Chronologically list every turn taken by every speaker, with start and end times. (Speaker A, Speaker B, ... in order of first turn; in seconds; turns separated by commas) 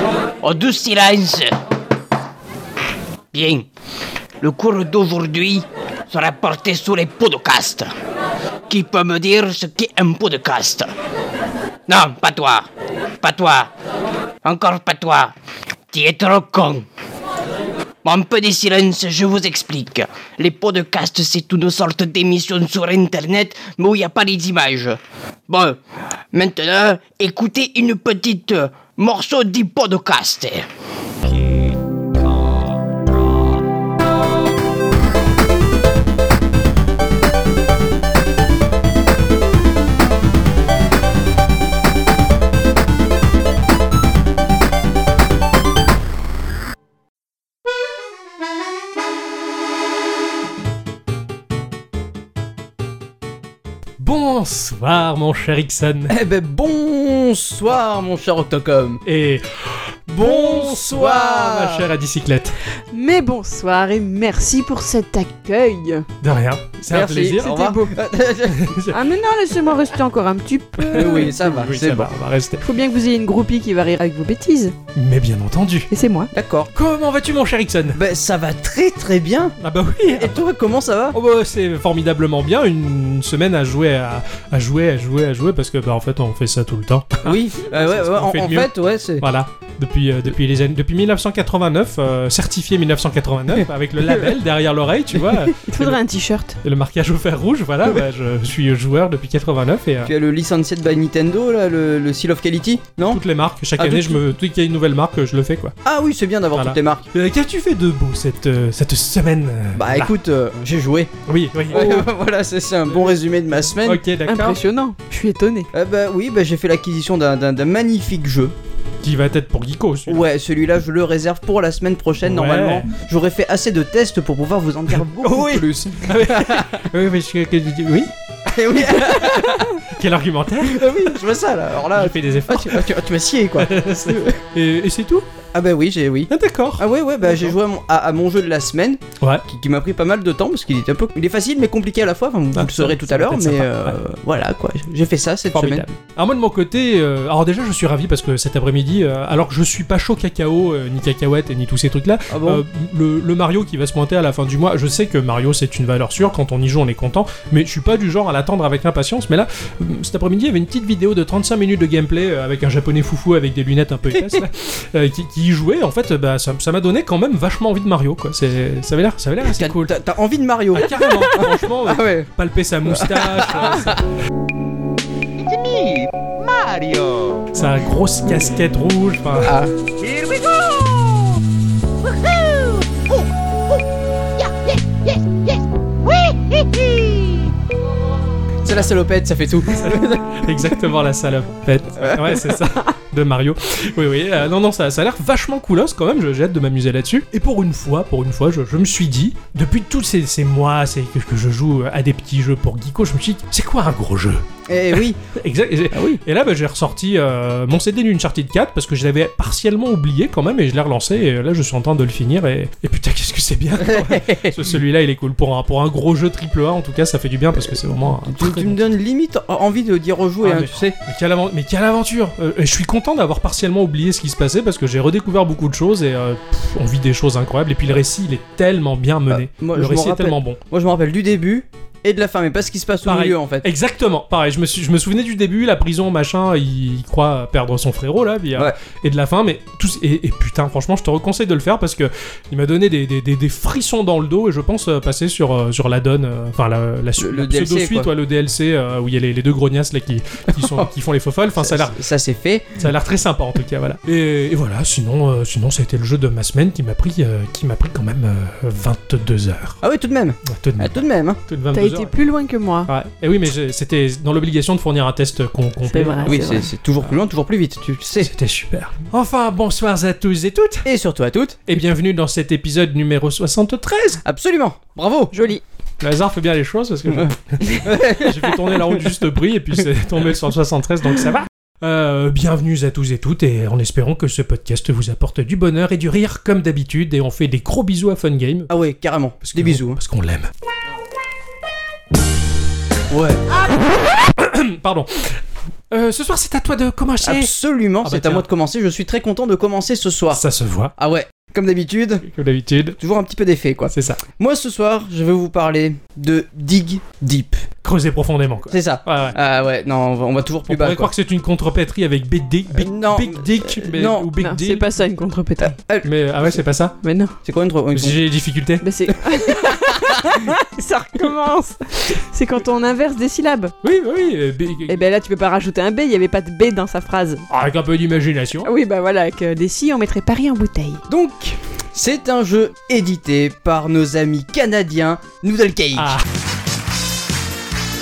Speaker A: 0.4-1.5, Speaker A: 3.3-3.6, Speaker A: 4.4-7.9, Speaker A: 8.7-10.9, Speaker A: 11.9-12.7, Speaker A: 13.2-13.7, Speaker A: 14.4-15.3, Speaker A: 15.9-16.8, Speaker A: 18.0-25.8, Speaker A: 26.3-30.6, Speaker B: 54.0-56.1, Speaker C: 56.1-59.0, Speaker B: 59.0-62.6, Speaker C: 60.2-61.9, Speaker D: 62.9-66.1, Speaker B: 66.2-67.6, Speaker C: 66.9-68.8, Speaker D: 67.4-68.0, Speaker B: 68.5-69.0, Speaker D: 68.9-71.4, Speaker B: 70.8-72.7, Speaker C: 70.9-72.1, Speaker D: 72.6-74.7, Speaker B: 74.9-75.9, Speaker D: 75.9-76.3, Speaker C: 76.3-76.7, Speaker B: 76.7-78.0, Speaker C: 77.9-79.5, Speaker B: 79.6-80.4, Speaker C: 80.1-81.2, Speaker B: 81.1-96.0, Speaker C: 87.2-89.2, Speaker D: 95.6-96.6, Speaker B: 96.6-100.1, Speaker C: 100.0-103.2, Speaker B: 103.0-105.7, Speaker C: 103.8-104.2, Speaker C: 105.8-107.0, Speaker B: 106.5-110.1, Speaker C: 109.7-111.1, Speaker B: 111.2-112.1, Speaker C: 111.7-114.0, Speaker B: 112.9-113.2, Speaker B: 113.8-114.6, Speaker D: 114.2-115.7, Speaker C: 115.7-118.5, Speaker B: 119.0-120.3, Speaker C: 120.1-126.8, Speaker B: 122.2-122.9, Speaker B: 124.9-128.1, Speaker C: 128.4-129.8, Speaker B: 128.9-131.4, Speaker C: 130.6-134.4, Speaker B: 131.9-132.9, Speaker B: 133.6-135.3, Speaker C: 135.5-145.9, Speaker B: 136.3-137.6, Speaker B: 139.2-139.4, Speaker B: 142.5-144.0, Speaker B: 145.5-169.9, Speaker C: 152.3-152.6, Speaker C: 169.4-172.3, Speaker B: 170.7-174.0, Speaker C: 172.9-174.0, Speaker E: 175.4-177.4, Speaker B: 177.5-179.6, Speaker C: 179.4-179.7, Speaker E: 180.0-181.2, Speaker E: 182.0-183.8, Speaker E: 184.4-187.5, Speaker C: 188.6-190.5, Speaker B: 189.7-218.9, Speaker C: 192.0-192.5, Speaker C: 204.7-205.2, Speaker C: 205.9-206.2, Speaker C: 213.8-214.5, Speaker C: 217.5-220.9, Speaker B: 220.4-230.6, Speaker C: 229.3-233.7, Speaker B: 233.0-252.0, Speaker C: 247.2-248.1, Speaker C: 250.5-250.9, Speaker C: 251.6-252.7, Speaker B: 252.8-259.8, Speaker C: 259.8-261.4, Speaker B: 260.4-262.1, Speaker D: 261.7-262.9, Speaker B: 262.9-266.4, Speaker D: 265.9-266.7, Speaker C: 266.2-268.3, Speaker B: 268.2-270.9, Speaker C: 270.8-271.6, Speaker B: 271.7-274.2, Speaker C: 274.2-275.3, Speaker D: 275.3-275.6, Speaker B: 276.0-288.7, Speaker C: 277.1-278.9, Speaker C: 288.7-290.0, Speaker B: 289.4-290.5, Speaker C: 293.1-293.4, Speaker B: 294.2-297.5, Speaker C: 297.2-300.4, Speaker B: 298.0-298.4, Speaker B: 300.3-300.9, Speaker C: 301.0-302.2, Speaker B: 302.2-303.0, Speaker C: 303.0-307.6, Speaker B: 303.9-304.2, Speaker B: 307.8-309.4, Speaker C: 308.7-311.1, Speaker B: 310.7-314.9, Speaker C: 312.7-314.3, Speaker D: 314.4-315.8, Speaker C: 315.6-316.1, Speaker B: 316.0-317.0, Speaker D: 317.0-317.4, Speaker C: 317.4-318.2, Speaker B: 317.9-318.9, Speaker D: 318.8-323.7, Speaker B: 323.8-325.0, Speaker D: 324.9-327.4, Speaker B: 327.5-328.7, Speaker D: 328.6-331.0, Speaker C: 331.1-336.2, Speaker B: 335.9-336.2